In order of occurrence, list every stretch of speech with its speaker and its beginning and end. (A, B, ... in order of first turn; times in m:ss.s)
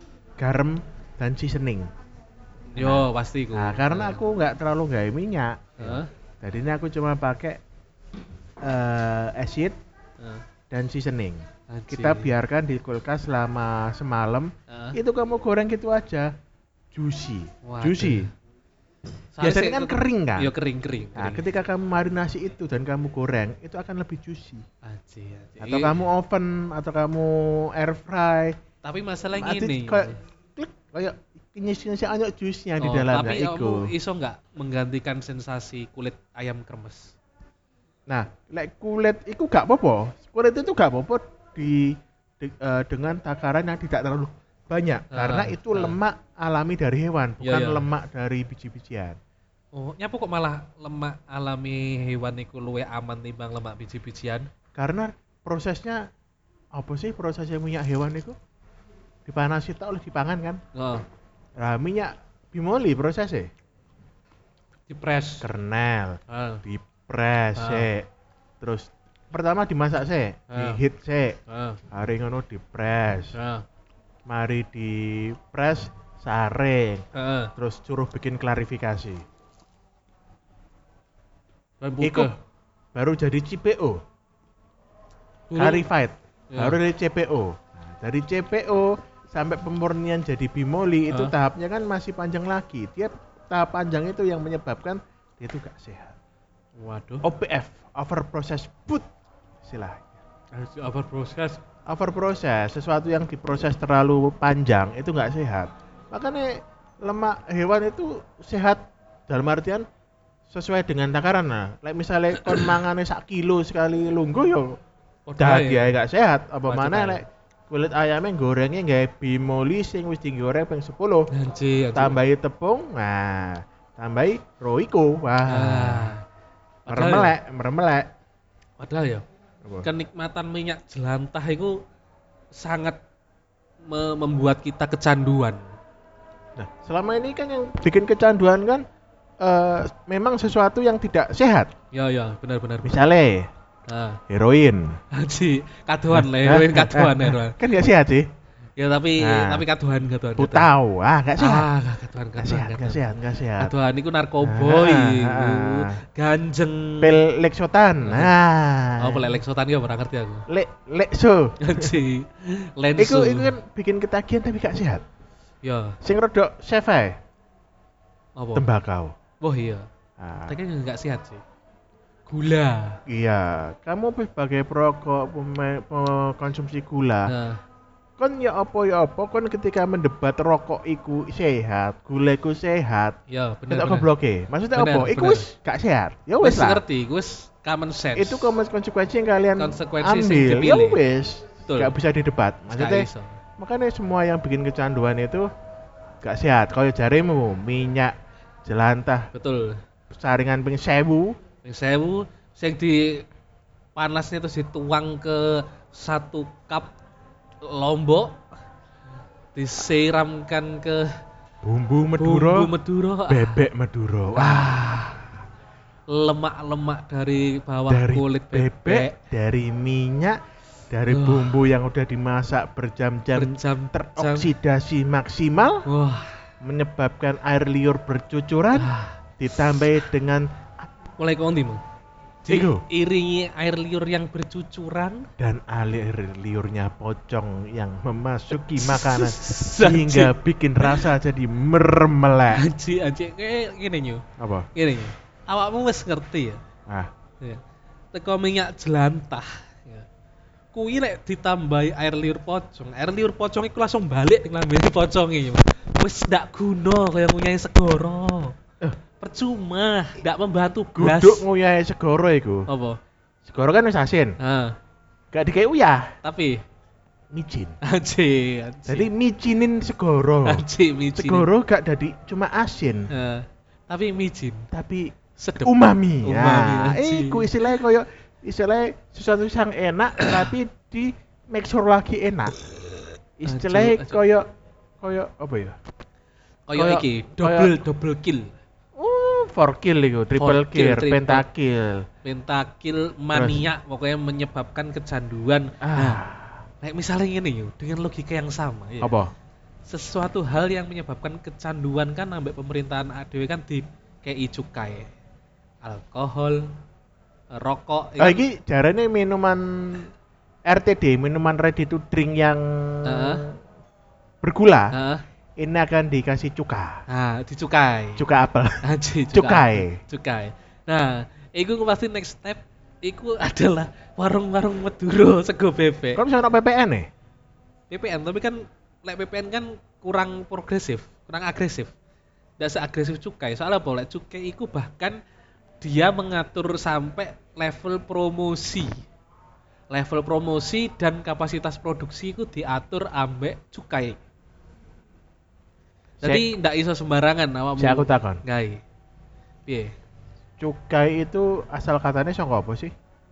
0:00.4-0:01.9 A
0:02.7-0:04.2 B
0:02.8-0:07.6 A
0:05.8-0:06.1 B
0:08.6-0:09.8 A
0:10.2-0:10.4 B
0:10.7-0:16.3 A
0:11.7-0:12.3 B
0:14.7-0:15.0 B
0:16.9-0:18.3 A
0:17.6-0:18.3 B
0:19.3-0:21.5 B
0:19.4-0:20.5 A
0:21.2-0:24.6 A
0:24.8-0:26.0 B
0:25.6-0:28.6 A
0:28.8-0:30.2 B
0:29.4-0:33.9 A
0:32.8-0:37.1 B
0:38.1-0:49.2 A
0:45.1-0:46.0 B
0:47.4-0:47.9 B
0:49.7-0:54.5 B
0:54.7-0:56.1 A
0:56.7-0:58.4 A
0:59.2-1:00.6 A
1:00.7-1:01.0 B
1:01.6-1:03.5 A
1:04.9-1:05.5 B
1:05.4-1:08.1 A
1:06.3-1:06.6 B
1:07.6-1:07.9 B
1:08.6-1:11.4 A
1:10.5-1:10.8 B
1:11.5-1:11.8 B
1:11.9-1:13.3 A
1:13.3-1:13.6 B
1:14.2-1:17.0 A
1:17.1-1:17.5 B
1:17.6-1:19.2 A
1:21.8-1:22.3 B
1:22.0-1:22.3 A
1:22.9-1:24.0 A
1:25.5-1:25.9 B
1:25.5-1:36.2 A
1:26.5-1:26.8 B
1:36.8-1:37.2 B
1:37.2-1:39.1 A
1:39.6-1:40.2 A
1:40.5-1:41.6 B
1:41.8-1:49.8 A
1:50.5-1:54.8 A
1:55.3-1:55.9 B
1:55.4-2:01.3 A
1:56.6-1:57.2 B
2:01.3-2:02.2 B
2:01.9-2:06.2 A
2:05.4-2:06.2 B
2:06.8-2:07.3 B
2:06.9-2:08.1 A
2:08.8-2:09.2 B
2:09.8-2:11.8 B
2:12.5-2:13.0 B
2:13.8-2:15.6 B
2:16.6-2:18.8 A
2:19.4-2:21.7 A
2:21.9-2:23.0 B
2:22.8-2:23.5 A
2:23.9-2:24.2 B
2:24.3-2:25.0 A
2:25.1-2:27.6 B
2:26.1-2:28.3 A
2:28.8-2:30.7 B
2:29.2-2:29.6 A
2:30.4-2:31.7 A
2:31.4-2:37.1 B
2:32.4-2:33.7 A
2:34.4-2:36.0 A
2:37.0-2:39.4 A
2:38.0-2:38.3 B
2:39.0-2:40.5 B
2:40.5-2:42.0 A
2:41.6-2:43.5 B
2:43.0-2:45.0 A
2:45.6-2:46.0 B
2:46.0-2:47.2 A
2:48.4-2:48.7 B
2:48.5-2:49.1 A
2:49.4-2:49.9 B
2:50.2-2:50.6 A
2:50.5-2:51.4 B
2:52.3-2:53.0 B
2:53.1-2:57.3 A
2:57.2-2:57.6 B
2:58.2-3:03.2 A
3:03.3-3:04.1 B
3:03.7-3:06.8 A
3:04.7-3:05.5 B
3:06.4-3:08.5 B
3:08.1-3:15.5 A
3:09.6-3:11.0 B
3:11.7-3:11.9 B
3:12.7-3:13.4 B
3:16.2-3:19.3 A
3:19.3-3:19.8 B
3:20.1-3:21.4 A
3:21.6-3:23.3 B
3:23.9-3:26.9 B
3:27.6-3:28.4 B
3:29.5-3:31.1 B
3:31.6-3:32.7 A
3:32.2-3:33.6 B
3:33.3-3:34.8 A
3:34.3-3:35.3 B
3:36.1-3:39.2 B
3:37.9-3:45.8 A
3:41.0-3:41.6 B
3:43.3-3:44.5 B
3:45.8-3:46.4 B
3:46.6-3:50.9 A
3:48.7-3:49.2 B
3:51.2-3:51.8 B
3:52.4-3:55.3 B
3:52.5-3:52.8 A
3:55.4-4:02.6 A
3:58.8-4:01.1 B
4:02.5-4:04.2 B
4:04.4-4:04.7 A
4:04.7-4:06.6 B
4:06.9-4:07.1 A
4:08.1-4:10.1 B
4:10.7-4:18.6 B
4:19.2-4:21.4 B
4:20.9-4:22.7 A
4:22.7-4:23.0 B
4:23.4-4:24.4 A
4:24.4-4:24.8 B
4:25.3-4:26.1 A
4:26.2-4:26.6 B
4:27.3-4:27.8 A
4:27.8-4:29.1 B
4:28.9-4:33.1 A
4:30.4-4:31.5 B
4:33.1-4:34.7 B
4:34.7-4:42.6 A
4:35.4-4:37.8 B
4:43.4-4:44.5 A
4:43.5-4:44.2 B
4:45.0-4:45.8 A
4:46.7-4:48.5 B
4:46.8-4:47.8 A
4:49.0-4:52.0 A
4:50.4-4:51.4 B
4:52.2-4:56.2 B
4:53.3-4:53.6 A
4:55.8-4:56.6 A
4:56.8-4:59.1 B
4:59.0-4:59.3 A
4:59.8-5:05.1 B
5:05.8-5:06.7 B
5:07.5-5:08.4 B
5:08.2-5:10.1 A
5:10.6-5:13.6 A
5:13.0-5:13.4 B
5:14.4-5:14.9 A
5:14.9-5:15.2 B
5:15.6-5:17.0 A
5:17.1-5:18.2 B
5:18.2-5:20.0 A
5:18.8-5:26.2 B
5:26.1-5:27.1 A
5:27.9-5:31.9 B
5:32.6-5:35.2 B
5:35.8-5:39.0 B
5:39.9-5:44.2 B
5:46.2-5:48.8 B
5:46.2-5:46.5 A
5:47.8-5:48.4 A
5:49.7-5:49.9 B
5:50.6-5:52.9 A